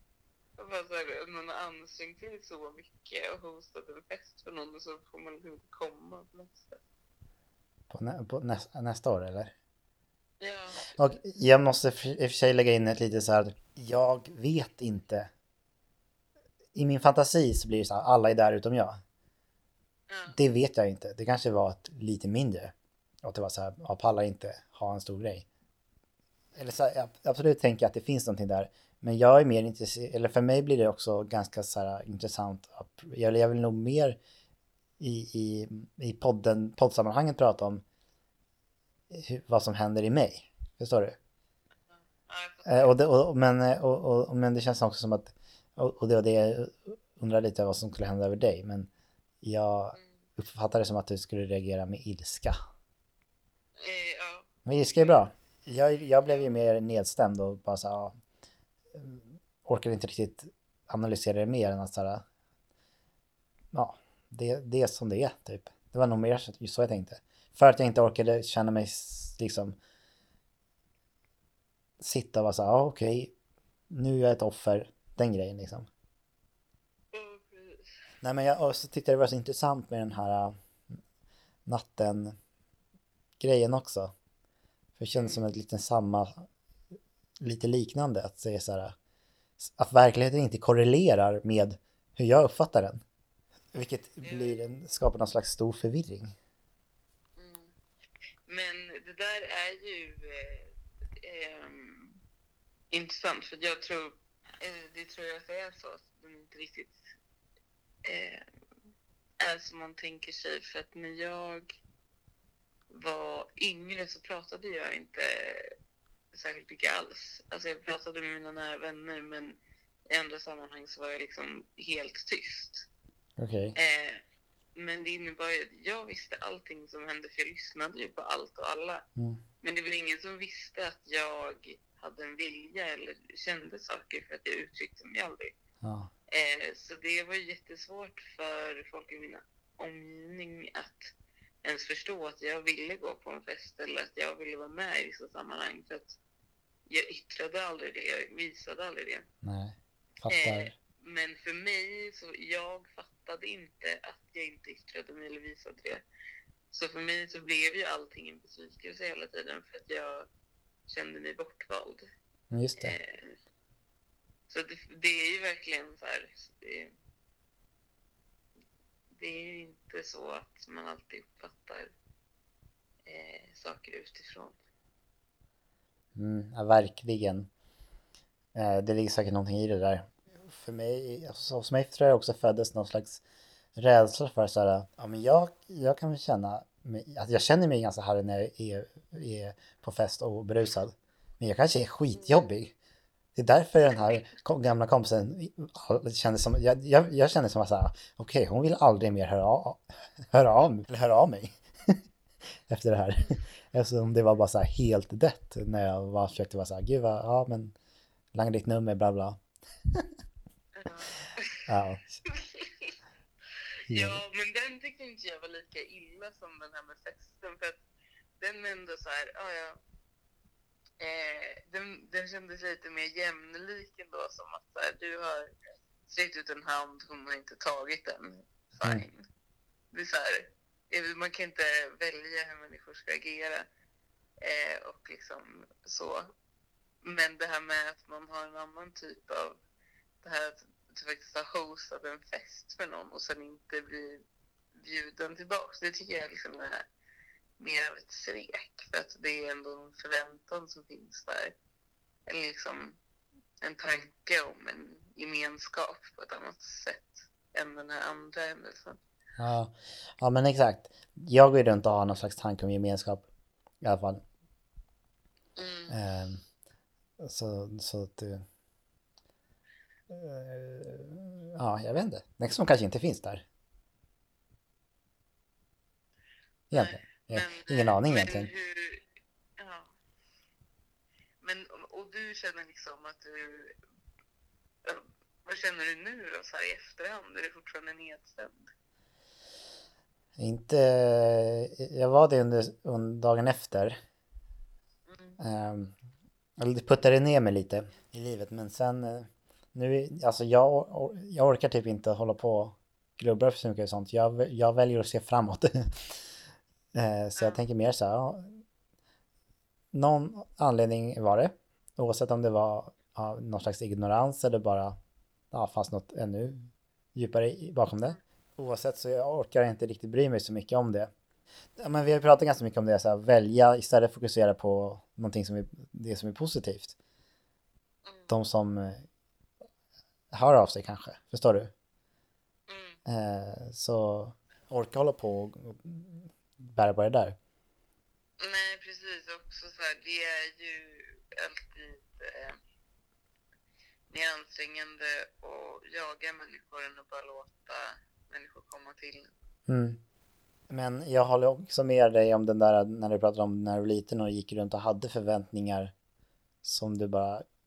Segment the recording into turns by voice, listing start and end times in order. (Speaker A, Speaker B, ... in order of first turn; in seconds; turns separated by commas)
Speaker A: 0.6-6.8, Speaker B: 7.9-9.5, Speaker A: 10.4-11.1, Speaker B: 11.0-15.3, Speaker B: 16.7-19.0, Speaker A: 20.1-20.4, Speaker B: 20.3-22.7, Speaker B: 23.2-25.4, Speaker B: 26.6-34.2, Speaker B: 35.0-37.8, Speaker B: 39.1-41.1, Speaker A: 41.9-43.0, Speaker B: 42.7-48.9, Speaker B: 49.4-52.5, Speaker A: 53.8-55.2, Speaker B: 54.7-58.1, Speaker B: 59.0-62.2, Speaker B: 63.7-69.7, Speaker B: 72.0-73.3, Speaker B: 73.9-75.9, Speaker A: 77.1-77.9, Speaker B: 78.2-80.5, Speaker B: 81.7-82.3, Speaker B: 83.4-84.1, Speaker B: 85.0-86.3, Speaker A: 85.1-85.4, Speaker B: 87.4-88.9, Speaker B: 89.6-93.0, Speaker B: 93.7-96.3, Speaker A: 94.2-95.0, Speaker A: 97.4-97.7, Speaker A: 98.5-102.2, Speaker A: 102.9-107.0, Speaker A: 108.0-108.4, Speaker A: 109.4-111.8, Speaker A: 112.9-115.7, Speaker A: 116.3-119.6, Speaker A: 120.1-122.9, Speaker B: 123.4-123.8, Speaker A: 123.8-124.2, Speaker A: 124.8-129.1, Speaker A: 129.6-135.5, Speaker B: 135.8-136.1, Speaker A: 136.3-141.1, Speaker A: 141.6-146.2, Speaker A: 146.9-149.2, Speaker B: 149.4-150.7, Speaker A: 150.3-156.0, Speaker A: 156.7-160.3, Speaker A: 160.9-162.1, Speaker B: 162.5-162.9, Speaker A: 162.8-163.3, Speaker A: 164.5-166.9, Speaker A: 169.1-171.9, Speaker A: 173.1-174.6, Speaker B: 176.2-177.5, Speaker B: 178.6-183.2, Speaker B: 183.8-192.7, Speaker A: 192.2-192.5, Speaker B: 193.3-199.8, Speaker B: 200.3-201.5, Speaker B: 202.7-207.7, Speaker B: 208.3-209.4, Speaker A: 210.8-211.7, Speaker B: 211.7-212.0, Speaker A: 212.2-213.0, Speaker B: 213.9-214.2, Speaker A: 213.9-217.8, Speaker A: 218.4-219.8, Speaker A: 221.0-225.5, Speaker A: 226.1-229.2, Speaker A: 229.9-233.7, Speaker A: 234.4-236.3, Speaker A: 237.0-239.6, Speaker A: 240.2-244.2, Speaker A: 244.8-246.8, Speaker A: 247.6-251.5, Speaker A: 252.3-253.0, Speaker A: 253.6-259.0, Speaker B: 259.4-259.7, Speaker B: 260.2-263.2, Speaker B: 263.8-264.2, Speaker A: 265.6-266.0, Speaker B: 265.9-266.4, Speaker B: 267.2-268.4, Speaker B: 270.1-273.4, Speaker B: 276.7-278.5, Speaker A: 276.7-279.0, Speaker A: 279.6-279.9, Speaker A: 281.4-283.8, Speaker A: 284.8-288.6, Speaker B: 290.4-293.9, Speaker A: 295.1-295.4, Speaker B: 295.4-295.9, Speaker B: 296.6-299.2, Speaker B: 299.7-305.7, Speaker B: 306.9-308.4, Speaker A: 307.4-307.6, Speaker B: 309.9-314.9, Speaker B: 315.5-316.6, Speaker B: 317.1-321.1, Speaker B: 321.8-326.9, Speaker A: 328.0-328.3, Speaker B: 328.3-329.0, Speaker B: 330.3-331.7, Speaker A: 332.7-333.0, Speaker B: 333.1-336.0, Speaker B: 336.8-337.3, Speaker A: 338.4-342.6, Speaker A: 344.1-349.3, Speaker B: 349.7-350.0, Speaker B: 350.7-355.9, Speaker B: 356.6-357.4